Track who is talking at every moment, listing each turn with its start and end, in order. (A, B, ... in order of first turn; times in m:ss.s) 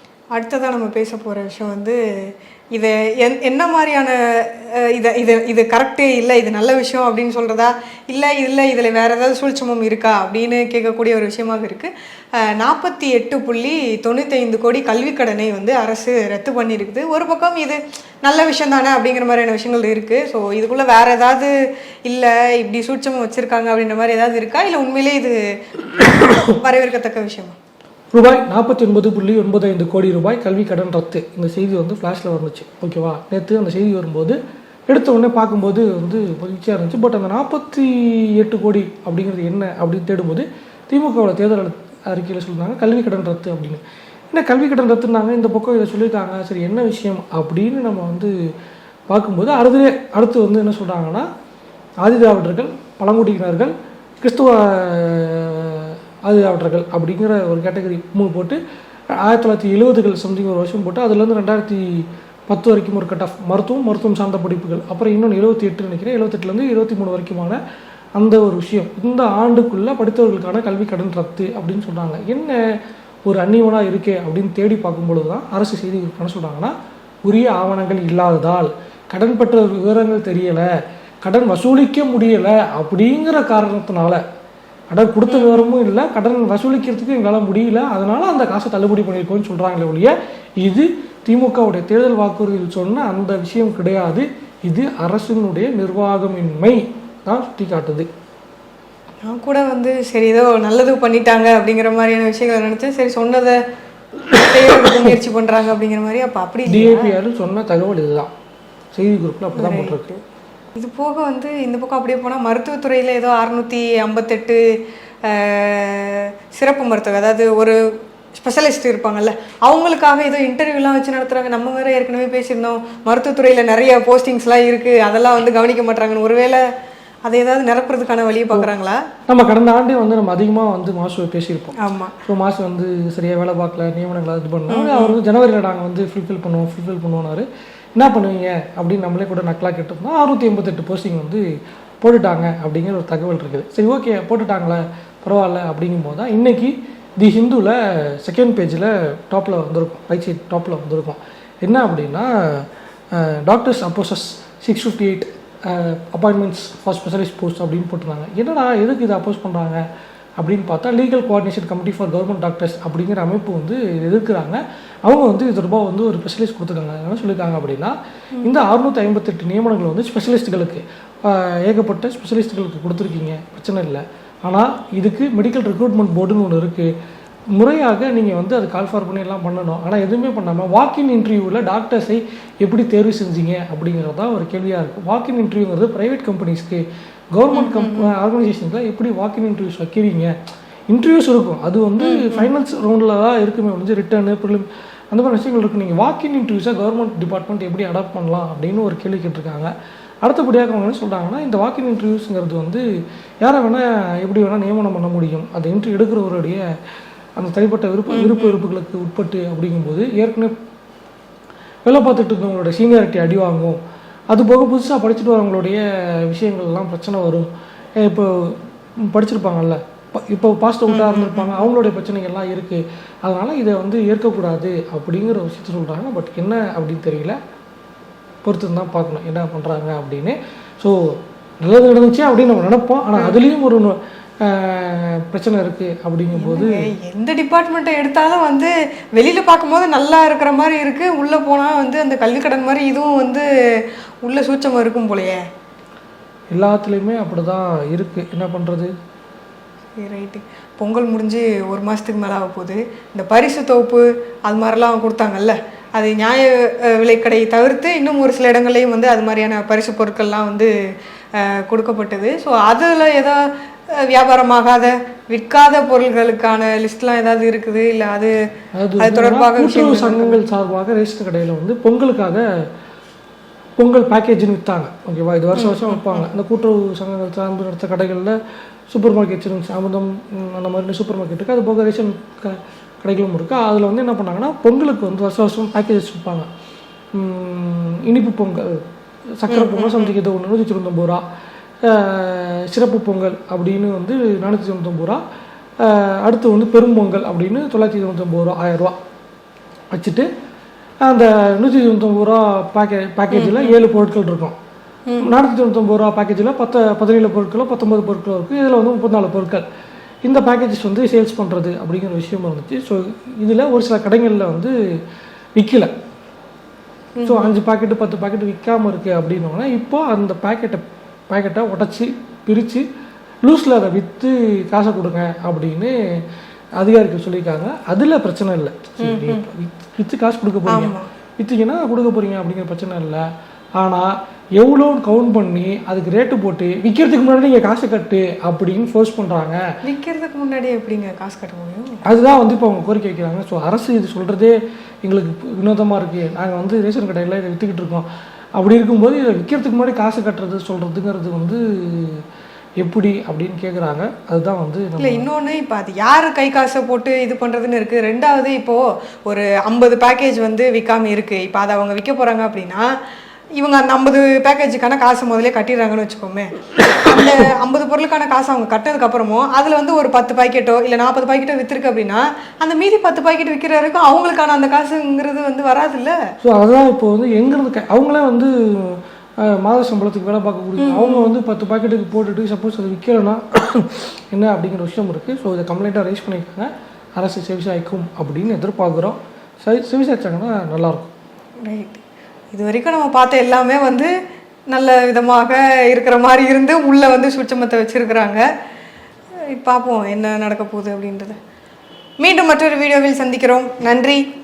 0:00.4-0:21.5 A
0:22.0-0:27.6 A
0:28.1-0:34.4 B
0:34.9-0:48.3 B
0:49.1-0:51.3 B
0:52.0-0:58.6 B
0:59.2-1:07.6 B
1:08.2-1:12.6 B
1:13.3-1:16.7 B
1:17.2-1:20.7 B
1:21.2-1:24.2 B
1:24.9-1:38.1 B
1:25.3-1:25.8 A
1:39.2-1:43.6 A
1:44.4-1:47.1 A
1:44.4-1:44.9 B
1:46.7-1:48.3 B
1:48.9-1:50.1 B
1:49.6-1:50.2 A
1:50.8-1:54.6 A
1:55.2-1:57.8 A
1:58.3-2:06.6 A
2:07.2-2:09.0 A
2:09.3-2:21.4 B
2:11.8-2:12.2 A
2:14.7-2:15.2 A
2:22.0-2:39.8 B
2:40.4-2:56.9 B
2:57.6-3:10.3 B
3:07.5-3:08.1 A
3:10.9-3:19.7 B
3:12.0-3:12.5 A
3:20.2-3:22.8 B
3:23.4-3:26.6 B
3:27.4-3:30.5 B
3:28.1-3:28.6 A
3:31.9-3:37.5 B
3:38.0-3:47.4 B
3:40.9-3:41.6 A
3:48.4-3:51.0 B
3:51.6-3:56.9 B
3:56.4-4:03.5 A
4:04.2-4:05.4 A
4:06.5-4:08.9 B
4:10.0-4:20.7 A
4:21.4-4:23.4 A
4:24.0-4:28.4 A
4:28.8-4:32.4 B
4:29.0-4:30.4 A
4:33.8-4:38.4 B
4:35.6-4:36.2 A
4:38.9-4:46.5 B
4:47.2-4:48.8 B
4:49.4-4:51.2 B
4:49.5-4:50.2 A
4:51.8-4:55.2 B
4:55.8-4:59.0 B
4:59.9-5:00.3 B
5:01.0-5:04.6 B
5:03.3-5:03.8 A
5:05.2-5:09.6 B
5:10.2-5:14.8 B
5:15.6-5:15.9 B
5:17.2-5:17.5 A
5:17.3-5:22.8 B
5:23.4-5:26.0 B
5:26.8-5:33.2 B
5:29.0-5:29.4 A
5:30.7-5:31.1 A
5:33.8-5:39.6 B
5:39.8-5:42.0 A
5:42.1-5:48.1 B
5:48.6-5:52.2 B
5:52.8-5:55.2 B
5:55.0-6:02.8 A
6:03.6-6:16.2 A
6:16.4-6:31.1 B
6:20.8-6:21.3 A
6:31.6-6:34.1 A
6:34.7-6:38.4 A
6:39.5-6:41.4 A
6:42.2-6:44.2 A